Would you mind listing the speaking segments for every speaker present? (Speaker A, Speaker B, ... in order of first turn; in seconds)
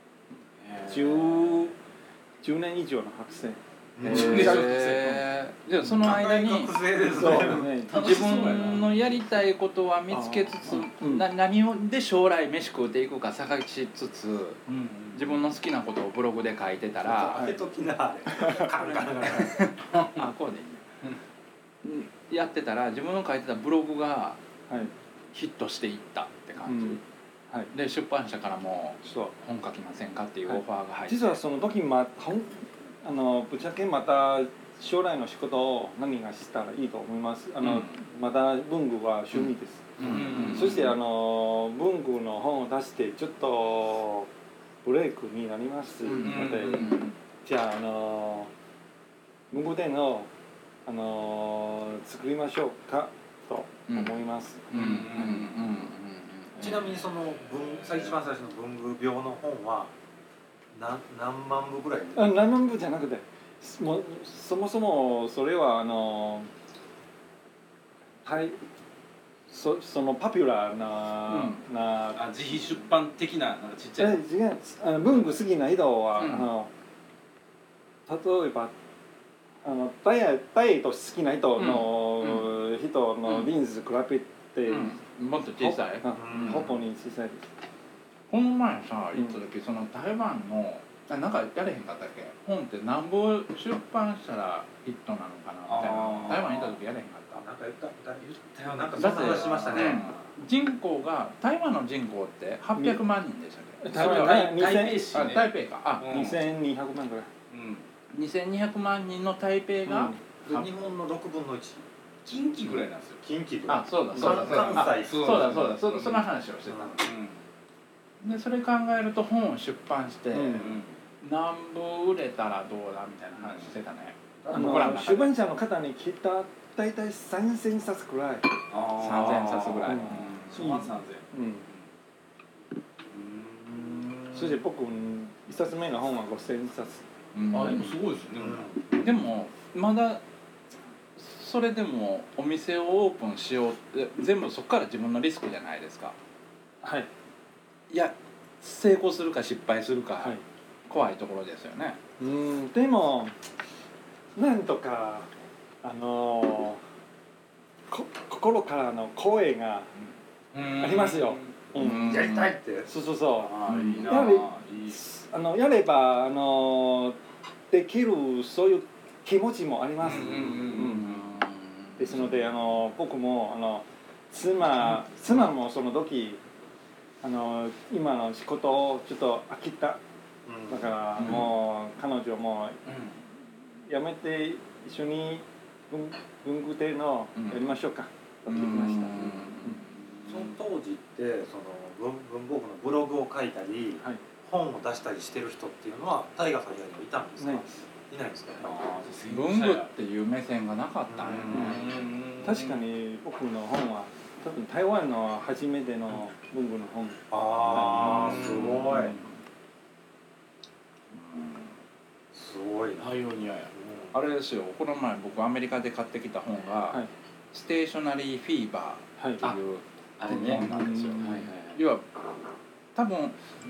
Speaker A: 0.6-1.7, 4.0-5.2, 7.2-9.0, 14.7-15.4, 40.0-40.9, 46.2-47.1, 54.7-55.5, 72.1-74.2, 95.7-96.7, 98.2-100.1, 103.9-106.4, 107.5-107.8, 112.2-113.2, 114.2-116.3, 117.0-117.4, 120.5-120.9, 128.7-131.8, 133.1-134.5, 137.5-139.0, 160.5-161.6, 163.4-165.0, 170.0-171.2, 198.6-199.9, 201.5-202.8, 207.9-209.2, 213.0-213.7, 220.2-221.8
Speaker B: 0.8-1.7, 2.4-5.0, 7.1-8.1, 10.1-11.3, 17.3-17.6, 18.3-18.7, 26.6-27.7, 29.0-29.3, 30.5-44.3, 44.8-48.5, 49.5-50.3, 50.9-55.4, 62.1-66.5, 68.2-68.6, 69.5-72.2, 74.0-76.7, 78.1-78.7, 79.6-85.0, 85.6-87.5, 102.8-103.0, 103.8-105.3, 106.0-107.3, 109.8-110.2, 120.3-120.8, 124.5-128.5, 129.8-131.6, 134.3-137.0, 146.8-147.1, 152.2-153.3, 154.3-155.3, 155.8-156.8, 157.9-159.9, 160.8-167.2, 167.7-171.2, 172.0-176.4, 177.2-180.0, 180.7-182.8, 183.9-189.8, 197.4-197.7, 202.4-208.5, 219.2-219.5, 220.3-221.5
Speaker C: 4.0-4.6, 5.9-7.7, 17.0-19.7, 56.6-59.9, 60.7-62.3, 86.1-86.8, 97.3-100.1, 110.4-111.8, 113.2-115.7, 116.7-117.0, 124.4-124.9, 138.3-139.0, 162.0-162.9, 180.4-180.9, 190.3-198.7, 201.1-201.9, 207.3-209.2, 212.3-213.1, 213.8-214.1
Speaker D: 4.0-6.8, 7.9-14.6, 15.1-17.4, 19.2-20.8, 21.8-24.4, 25.3-27.0, 27.7-31.4, 37.6-38.0, 40.0-40.9, 46.1-47.1, 53.9-54.2, 54.7-56.9, 71.3-71.6, 81.6-82.4, 84.7-86.6, 88.3-97.4, 99.0-104.5, 105.1-106.3, 108.1-110.7, 113.7-117.1, 118.2-125.4, 128.9-130.7, 137.3-137.9, 139.0-140.2, 141.2-146.2, 147.9-152.0, 161.8-162.6, 163.7-164.3, 170.8-172.4, 181.2-181.5, 187.3-187.7, 188.5-189.9, 199.3-201.8, 208.7-209.2, 211.1-211.7, 214.1-222.0, 222.9-223.4